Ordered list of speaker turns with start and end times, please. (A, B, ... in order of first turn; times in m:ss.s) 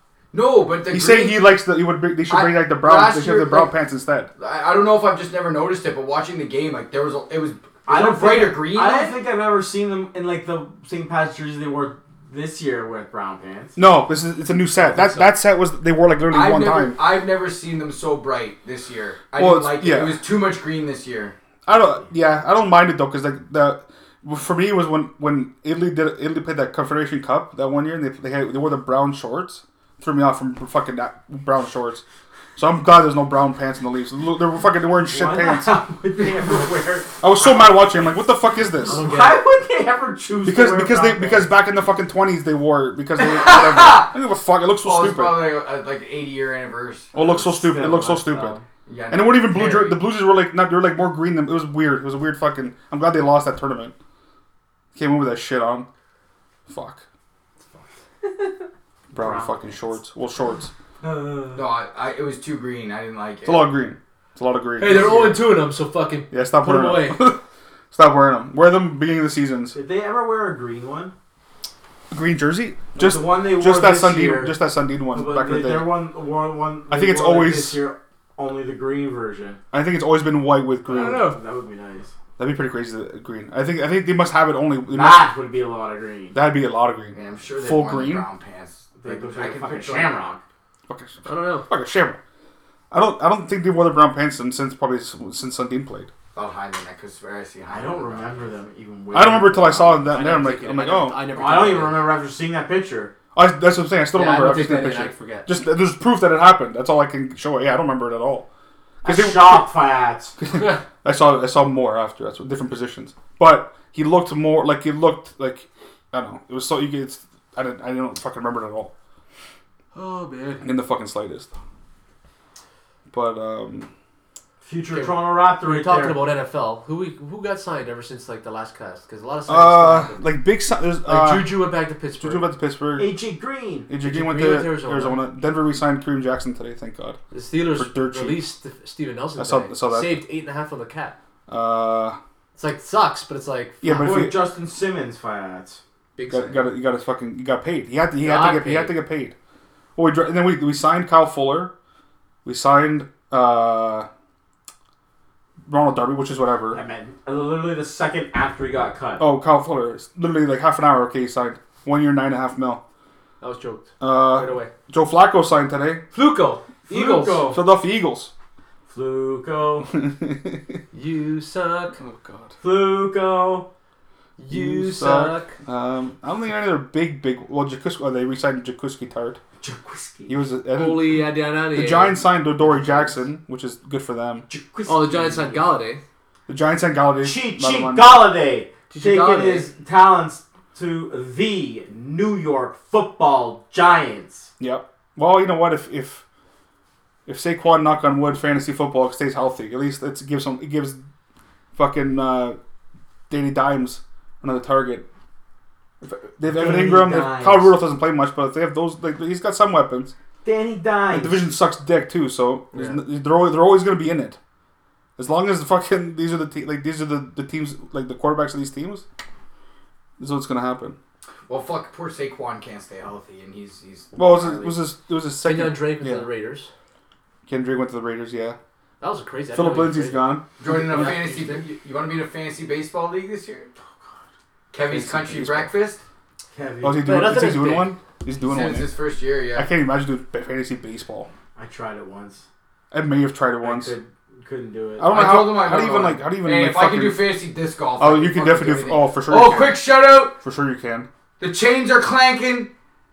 0:00.3-0:01.4 A
0:00.9-0:04.3 B
0:02.3-0:03.7 A
0:04.4-0:09.2 A
0:07.9-0:13.8 C
0:13.8-0:17.0 B
0:14.8-0:15.4 D
0:16.3-0:21.4 A
0:19.4-0:20.2 B
0:21.7-0:32.0 B
0:32.6-0:35.8 B
0:35.1-0:37.7 C
0:37.2-0:39.1 B
0:38.8-0:39.4 D
0:38.9-0:41.5 C
0:40.4-0:45.4 B
0:43.2-0:44.1 A
0:44.8-0:47.1 A
0:47.1-0:48.6 B
0:47.2-0:48.7 C
0:48.9-0:50.0 A
0:49.1-0:53.9 B
0:55.0-0:55.9 B
0:56.7-0:57.0 B
0:59.1-1:00.7 B
0:59.1-0:59.9 C
1:01.0-1:01.7 C
1:01.6-1:03.7 A
1:03.4-1:05.4 B
1:04.8-1:07.2 D
1:06.3-1:07.4 B
1:07.9-1:09.8 B
1:09.7-1:11.1 C
1:12.1-1:15.9 B
1:13.0-1:14.6 C
1:15.1-1:19.6 C
1:16.9-1:17.8 B
1:19.7-1:21.3 B
1:20.8-1:22.1 C
1:21.0-1:21.4 D
1:22.4-1:25.3 B
1:24.9-1:26.4 C
1:26.3-1:28.2 B
1:27.1-1:30.2 A
1:29.0-1:30.4 C
1:30.9-1:32.2 B
1:31.2-1:31.7 D
1:32.9-1:36.1 B
1:36.4-1:38.5 A
1:37.7-1:40.1 C
1:39.1-1:41.2 B
1:40.1-1:42.1 D
1:41.4-1:43.1 C
1:43.4-1:48.5 B
1:44.1-1:45.5 D
1:49.0-1:49.7 B
1:49.0-1:50.4 C
1:50.4-1:58.9 B
1:59.9-2:00.6 D
2:00.6-2:01.5 B
2:03.1-2:03.9 B
2:04.6-2:06.2 C
2:04.9-2:10.2 D
2:09.5-2:11.6 B
2:11.0-2:12.4 D
2:12.2-2:13.2 B
2:13.0-2:13.9 C
2:13.9-2:17.2 B
2:14.0-2:15.2 D
2:17.3-2:21.2 D
2:17.8-2:18.4 B
2:19.4-2:20.2 B
2:21.5-2:22.2 B
2:22.6-2:23.8 D
2:23.8-2:24.4 B
2:23.8-2:25.8 C
2:26.2-2:26.7 D
2:26.3-2:29.4 B
2:28.2-2:29.0 D
2:30.0-2:31.7 B
2:32.4-2:34.1 B
2:35.6-2:36.8 B
2:36.7-2:39.3 C
2:39.2-2:42.8 B
2:43.4-2:44.7 D
2:44.0-2:46.0 B
2:46.1-2:47.5 D
2:46.9-2:47.6 C
2:47.5-2:48.3 B
2:48.9-2:49.9 C
2:49.9-2:50.8 B
2:50.9-2:52.0 D
2:52.0-2:52.5 B
2:52.6-2:53.7 C
2:54.4-2:55.6 D
2:54.5-2:59.4 B
2:59.6-3:00.4 C
3:00.3-3:04.5 B
3:00.7-3:02.2 D
3:02.6-3:03.2 C
3:04.5-3:05.6 C
3:04.9-3:06.0 D
3:06.5-3:08.3 B
3:07.2-3:14.5 C
3:08.9-3:09.7 D
3:14.6-3:16.2 B
3:17.3-3:21.0 B
3:21.8-3:22.6 B
3:23.3-3:25.1 B
3:26.0-3:30.1 B
3:26.4-3:27.8 C
3:30.4-3:31.5 C
3:31.1-3:34.4 B
3:32.7-3:33.0 D
3:35.2-3:39.0 B
3:40.2-3:41.0 B
3:41.5-3:44.8 A
3:44.2-3:46.3 B
3:45.4-3:46.7 D
3:47.5-3:48.6 B
3:49.0-3:51.6 D
3:49.5-3:50.5 B
3:50.6-3:53.7 A
3:54.7-3:56.0 A
3:54.8-3:55.7 B
3:56.5-3:57.1 C
3:56.8-3:58.9 B
3:57.0-3:57.9 D
3:58.4-3:59.7 A
3:59.6-4:01.3 B
4:01.6-4:02.5 C
4:02.9-4:04.0 B
4:03.6-4:05.1 C
4:05.0-4:07.2 B
4:05.1-4:10.4 A
4:08.0-4:09.8 B
4:10.4-4:11.1 B
4:11.4-4:12.7 A